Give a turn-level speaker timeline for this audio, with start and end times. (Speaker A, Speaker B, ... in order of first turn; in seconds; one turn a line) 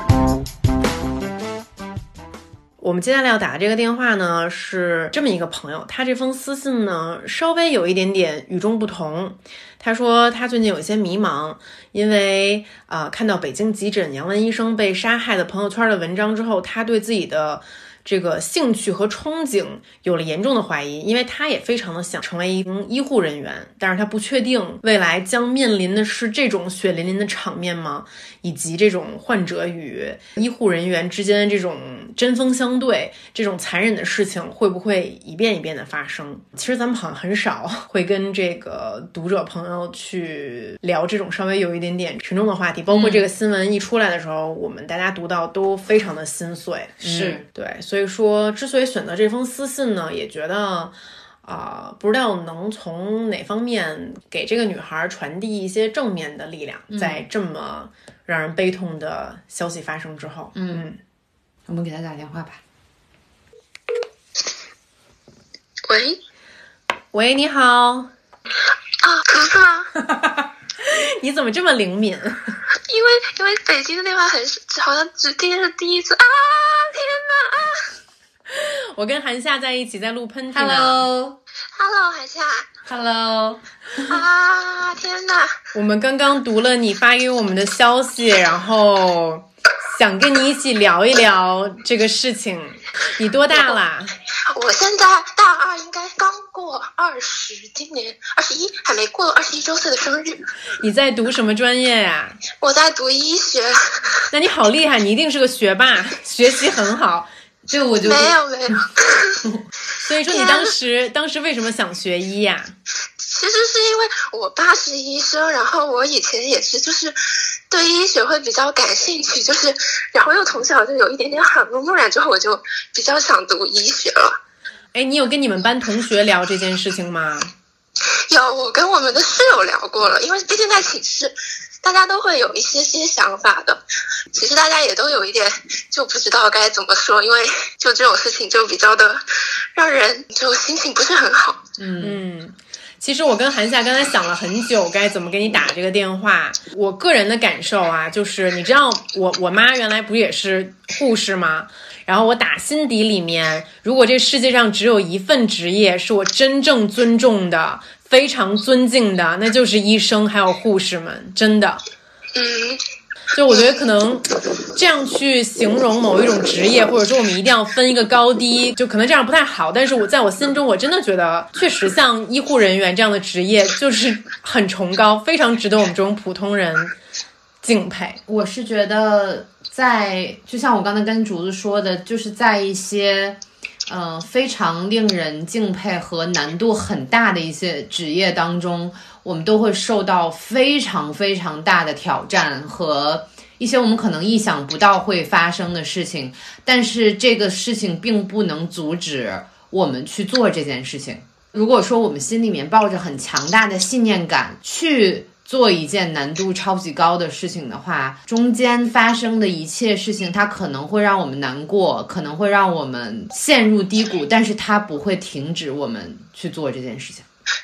Speaker A: 2.8-61.0
Speaker B: 42.9-43.2
Speaker B: 47.0-47.5
Speaker B: 56.9-57.2
Speaker B: 60.5-60.9
Speaker B: 61.7-62.6
Speaker C: 65.9-66.2
Speaker A: 67.1-68.1
Speaker C: 69.0-69.9
Speaker A: 70.0-72.4
Speaker C: 72.9-77.8
Speaker A: 78.5-81.1
Speaker B: 80.5-81.4
Speaker C: 81.8-82.7
Speaker B: 82.9-84.2
Speaker C: 84.0-85.6
Speaker A: 85.7-94.1
Speaker C: 94.5-100.4
Speaker A: 100.8-102.4
Speaker C: 102.6-103.8
Speaker A: 104.3-107.3
Speaker B: 107.7-108.8
Speaker C: 108.0-109.4
Speaker A: 110.0-112.7
Speaker C: 110.3-110.7
Speaker C: 113.2-117.2
Speaker C: 117.7-124.4
Speaker A: 124.9-127.5
Speaker C: 128.3-133.8
Speaker C: 134.3-139.2
Speaker C: 139.8-141.6
Speaker B: 141.8-142.2
Speaker A: 142.0-161.8
Speaker C: 162.3-162.8
Speaker A: 163.3-176.9
Speaker A: 177.6-178.2
Speaker B: 178.3-217.3